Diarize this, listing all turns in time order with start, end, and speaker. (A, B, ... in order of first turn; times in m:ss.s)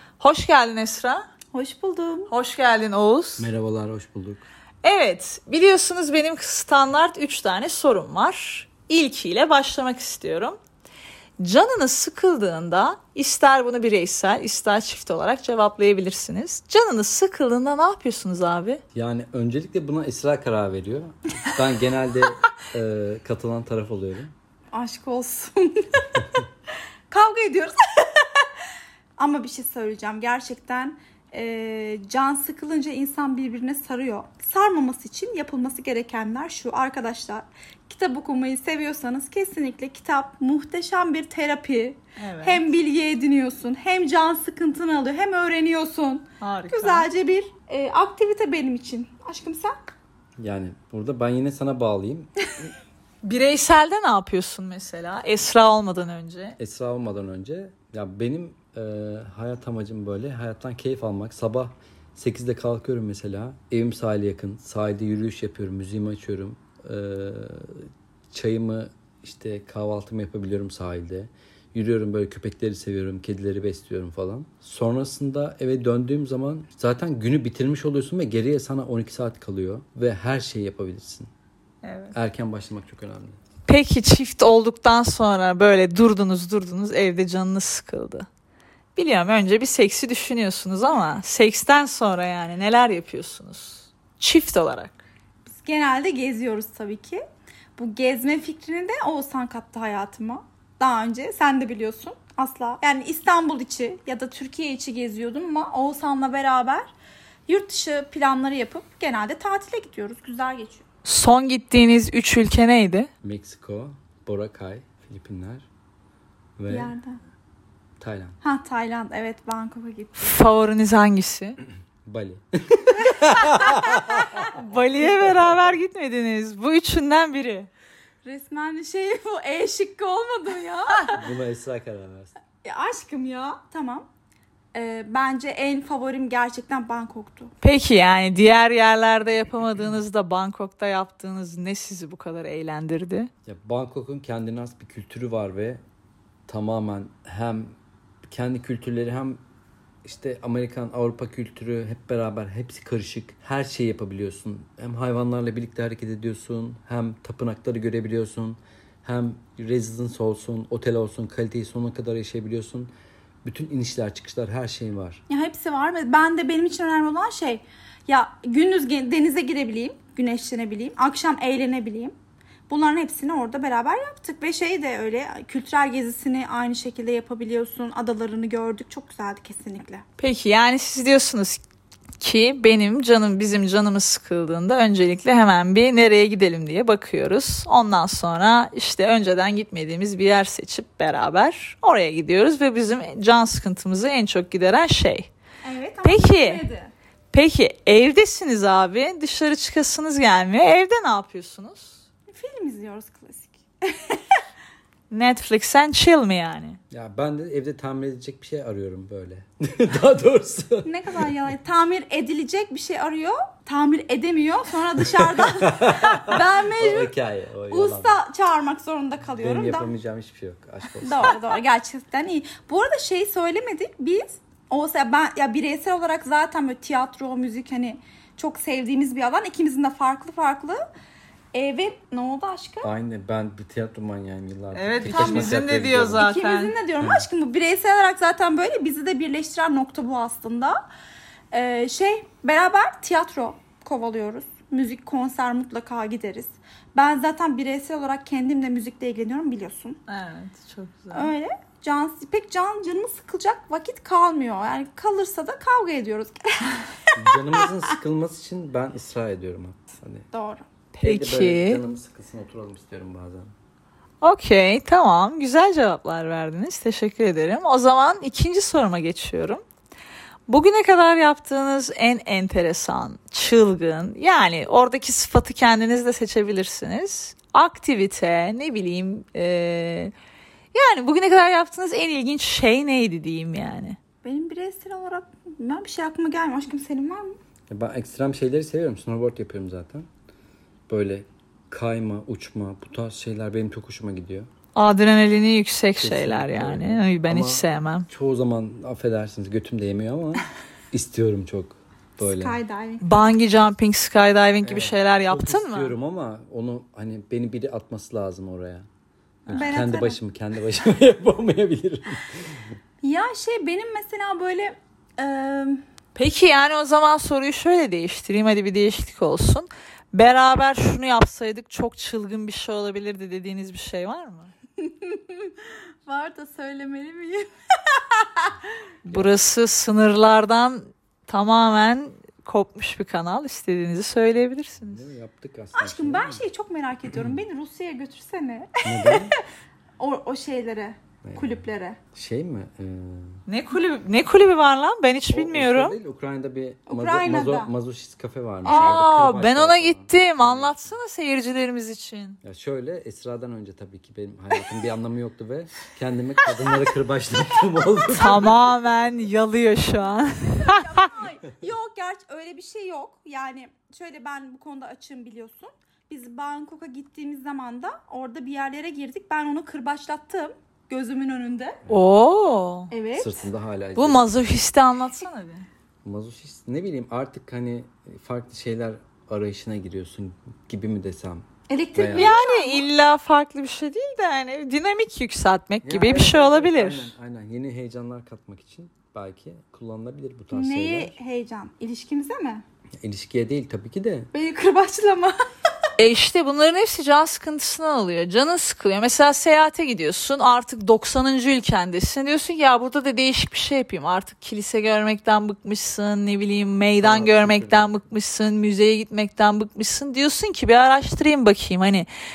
0:00.2-0:01.3 A
0:01.5-0:02.3 B
0:02.3-0:03.5 A
0:03.4-0:04.5 C
0:04.8-0:10.6 A
0:11.4-0:18.8 A
0:18.9-0:24.3 C
0:24.7-0:26.1 B
0:27.1-0:28.4 B
0:29.2-0:49.9 B
0:42.2-0:42.6 A
0:46.4-0:47.1 A
0:50.4-0:52.3 C
0:53.2-0:56.6 A
0:56.6-1:21.3 C
1:21.8-1:22.2 A
1:22.1-1:23.4 C
1:23.7-1:28.3 A
1:29.0-1:35.0 A
1:35.5-1:37.2 B
1:37.8-1:46.9 B
1:47.5-1:50.8 B
1:51.0-1:53.1 A
1:53.2-1:55.7 C
1:56.6-1:56.9 C
1:56.7-1:57.2 B
1:58.0-1:58.4 C
1:58.4-2:00.4 B
2:00.2-2:01.6 A
2:02.0-2:04.4 C
2:03.2-2:04.5 B
2:04.4-2:07.7 A
2:08.2-2:11.2 B
2:11.1-2:12.3 C
2:12.6-2:14.1 B
2:14.7-2:17.5 B
2:17.6-2:23.3 A
2:23.4-2:25.8 C
2:26.5-2:29.4 C
2:30.0-2:42.9 C
2:43.4-2:45.2 C
2:45.3-2:52.2 B
2:52.7-3:00.0 B
3:00.2-3:01.6 A
3:02.2-3:15.3 A
3:15.6-3:16.9 B
3:16.0-3:16.6 A
3:17.3-3:22.0 A
3:22.3-3:24.4 B
3:25.1-3:26.8 A
3:26.9-3:31.3 C
3:30.8-3:37.1 B
3:35.0-3:38.2 C
3:37.7-3:39.9 B
3:39.4-3:41.4 C
3:41.0-3:50.8 B
3:51.5-3:52.9 B
3:52.8-3:56.3 C
3:54.8-3:56.7 A
3:55.1-3:55.5 B
3:56.2-4:00.8 B
3:57.0-3:57.3 C
4:01.5-4:10.0 B
4:10.1-4:11.3 A
4:11.1-4:17.1 B
4:17.2-4:20.3 C
4:20.3-4:20.6 B
4:21.0-4:23.5 C
4:21.0-4:21.8 A
4:24.2-4:29.6 A
4:30.5-4:40.1 A
4:40.7-4:44.0 A
4:44.2-4:47.4 B
4:47.7-4:50.1 C
4:50.9-4:54.5 C
4:54.8-4:58.1 A
4:56.0-5:02.6 C
5:02.2-5:03.3 B
5:03.0-5:06.0 A
5:04.6-5:08.9 C
5:09.5-5:09.8 A
5:09.5-5:12.7 C
5:09.5-5:10.2 B
5:13.0-5:15.8 B
5:16.2-5:24.5 A
5:24.8-5:28.6 B
5:29.1-5:35.1 A
5:29.1-5:29.4 C
5:34.8-5:36.4 C
5:35.8-5:39.4 B
5:38.8-5:39.3 C
5:40.0-5:42.0 B
5:41.2-5:41.6 C
5:42.1-5:43.4 C
5:43.5-5:46.0 A
5:45.3-5:51.0 C
5:46.9-5:47.7 B
5:48.6-5:52.4 A
5:48.7-5:49.0 B
5:52.4-5:58.6 C
5:58.2-6:01.0 A
6:00.5-6:11.8 B
6:11.9-6:12.9 A
6:12.9-6:13.3 B
6:13.2-6:14.3 C
6:14.0-6:15.7 A
6:16.0-6:22.4 C
6:21.7-6:22.9 B
6:22.1-6:27.1 A
6:25.8-6:31.1 C
6:30.5-6:32.6 B
6:33.0-6:34.3 C
6:34.3-6:35.3 B
6:36.0-6:52.1 A
6:47.0-6:47.9 C